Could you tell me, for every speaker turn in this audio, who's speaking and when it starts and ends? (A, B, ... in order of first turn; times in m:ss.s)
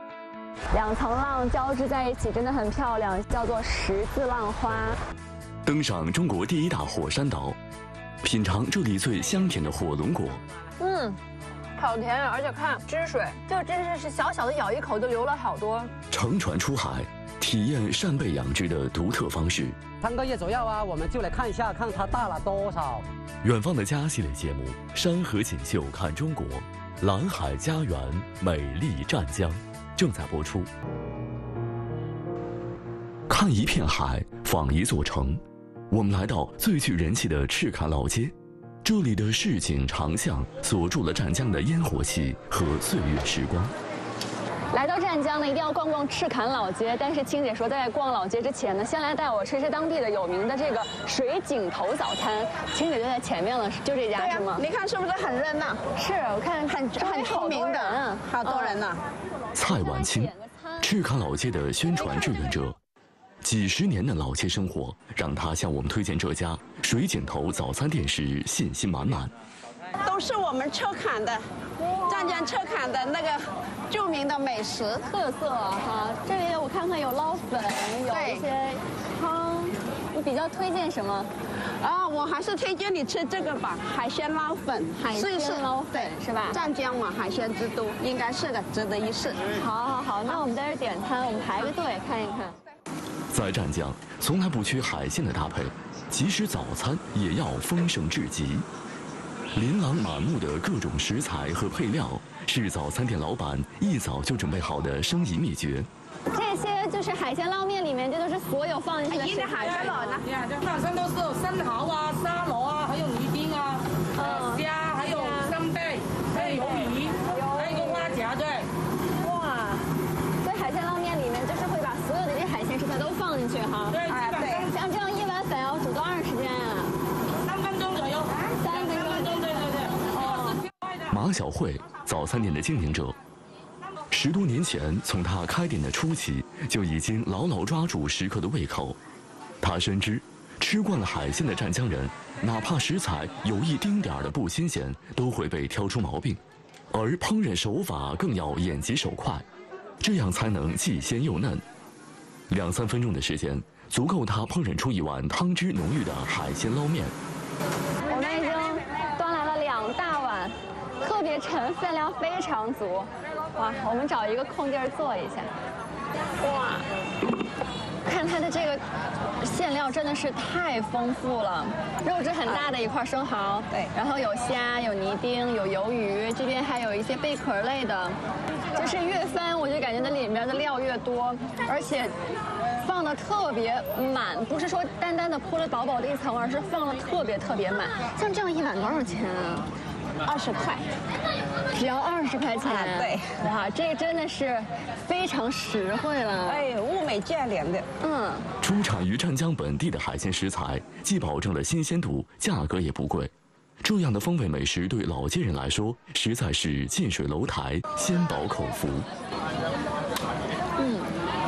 0:00.7-0:05.0 A
0:05.6-0:07.6 B
0:08.2-0:10.4 B
0:10.8-0:11.2 A
0:11.8-0:15.9 A
0:16.1-0:19.8 B
0:20.0-0:23.0 C
0:23.4-0:30.7 B
0:33.3-0:43.7 B
0:44.7-0:54.6 A
0:54.1-0:55.8 D
0:56.0-0:58.8 A
0:56.7-0:59.0 D
0:59.5-1:01.0 A
0:59.5-1:02.8 B
1:01.9-1:02.6 A
1:03.4-1:09.3 B
1:10.0-1:11.4 D
1:11.8-1:12.6 A
1:12.1-1:15.1 D
1:15.1-1:21.3 A
1:18.1-1:18.5 D
1:21.8-1:29.6 D
1:25.1-1:26.6 A
1:29.6-1:32.6 A
1:33.3-1:38.7 B
1:39.5-1:45.9 B
1:46.3-1:50.2 A
1:49.2-1:58.7 E
1:49.7-1:50.0 D
1:54.2-1:55.6 A
1:56.4-1:58.2 A
1:59.2-1:59.8 A
2:00.4-2:07.0 A
2:03.9-2:04.7 E
2:07.4-2:10.6 E
2:08.6-2:10.6 A
2:11.1-2:13.2 B
2:14.1-2:19.0 B
2:19.6-2:26.4 B
2:26.9-2:29.5 B
2:30.0-2:31.6 B
2:32.5-2:37.1 B
2:38.1-2:45.5 A
2:46.4-2:46.9 A
2:48.0-2:48.8 A
2:49.4-2:58.2 A
2:58.7-3:02.2 A
3:02.8-3:09.7 A
3:10.2-3:10.9 D
3:11.7-3:16.7 A
3:12.6-3:13.4 D
3:16.4-3:17.8 D
3:18.0-3:18.5 A
3:18.6-3:29.0 B
3:30.8-3:31.1 A